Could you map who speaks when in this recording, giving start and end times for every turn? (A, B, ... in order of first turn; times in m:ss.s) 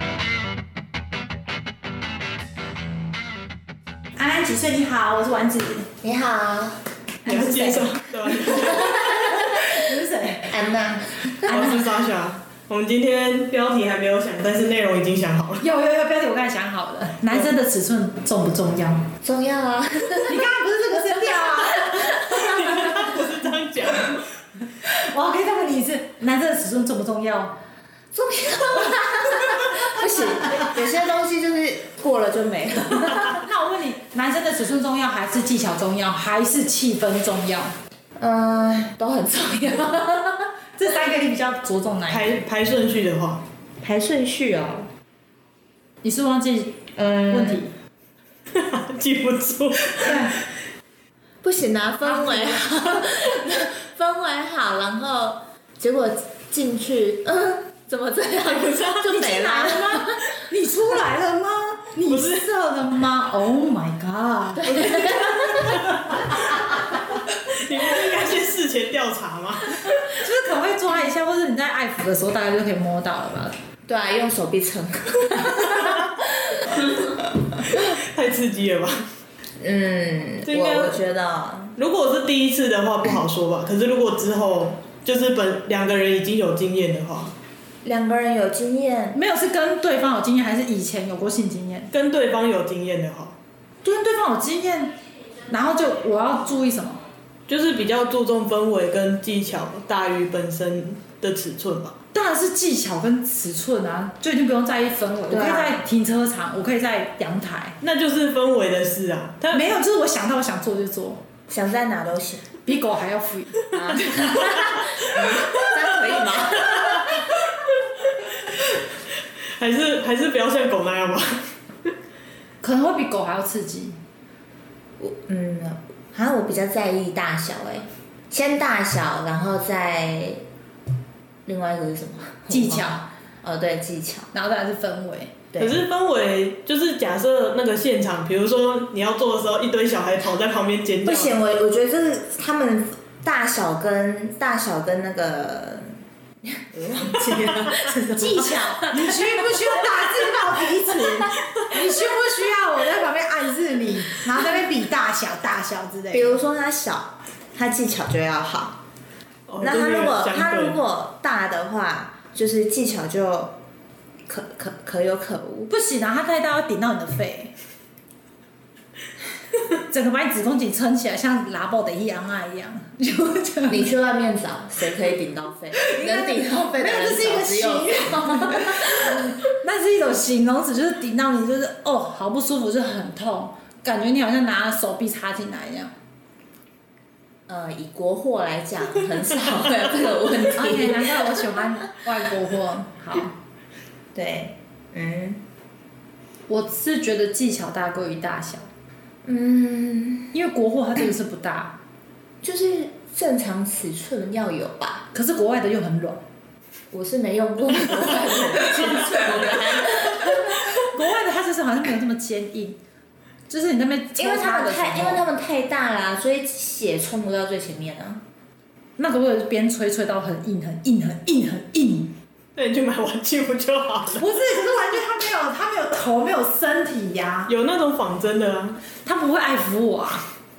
0:04.2-0:05.9 A
0:06.0-0:06.8 B
0:07.2-0:09.3 C
0:07.2-0:10.5 A
0:10.5-0:11.7 B
0:11.4-0:15.7 C
0:15.6-0:19.1 A
0:19.2-0:20.4 B
0:20.2-0:23.3 A
0:21.9-0:22.2 B
0:22.3-0:24.3 C
0:24.8-0:27.6 A
0:28.1-0:33.4 B
0:33.3-0:37.7 A
0:38.2-0:40.5 B
0:40.7-0:42.4 A
0:42.1-0:43.4 C
0:43.8-0:44.9 B
0:46.0-0:47.7 A
0:47.0-0:47.6 B
0:48.5-0:50.3 C
0:49.9-0:50.4 A
0:51.4-1:00.3 B
0:52.2-0:52.6 A
0:59.0-1:06.6 A
1:02.0-1:02.5 C
1:04.5-1:06.4 B
1:07.5-1:10.0 C
1:10.0-1:13.6 A
1:13.8-1:17.3 B
1:17.7-1:19.1 C
1:19.6-1:21.8 B
1:20.5-1:21.0 C
1:21.8-1:27.3 C
1:27.8-1:29.2 B
1:29.1-1:31.9 A
1:31.9-1:33.4 C
1:33.8-1:35.0 A
1:35.5-1:37.0 A
1:37.5-1:42.0 C
1:42.1-1:47.8 A
1:45.3-1:45.8 B
1:47.8-1:49.7 C
1:49.5-1:51.2 A
1:51.5-1:52.5 B
1:52.7-1:53.7 A
1:53.7-1:57.2 B
1:56.7-1:58.8 C
1:59.4-2:01.9 C
2:02.6-2:04.0 A
2:05.0-2:10.4 B
2:11.5-2:14.3 B
2:12.5-2:13.0 A
2:14.3-2:15.3 A
2:15.5-2:15.8 B
2:15.6-2:21.3 C
2:21.1-2:30.2 B
2:27.3-2:27.9 C
2:28.2-2:36.4 A
2:36.1-2:38.8 B
2:39.5-2:40.8 C
2:39.6-2:43.5 B
2:44.3-2:45.7 B
2:45.7-2:47.5 A
2:49.9-2:53.8 A
2:53.7-2:59.3 B
2:55.8-3:05.9 A
3:07.5-3:11.4 B
3:10.6-3:13.3 A
3:14.2-3:15.4 B
3:16.5-3:18.7 A
3:19.2-3:20.3 B
3:20.3-3:21.8 A
3:22.4-3:25.1 B
3:25.1-3:26.2 A
3:26.9-3:30.7 B
3:30.4-3:32.8 A
3:33.5-3:35.2 A
3:34.2-3:38.2 B
3:39.0-3:42.1 A
3:42.6-3:44.3 C
3:44.2-3:47.5 A
3:47.5-3:48.8 C
3:49.0-3:50.3 A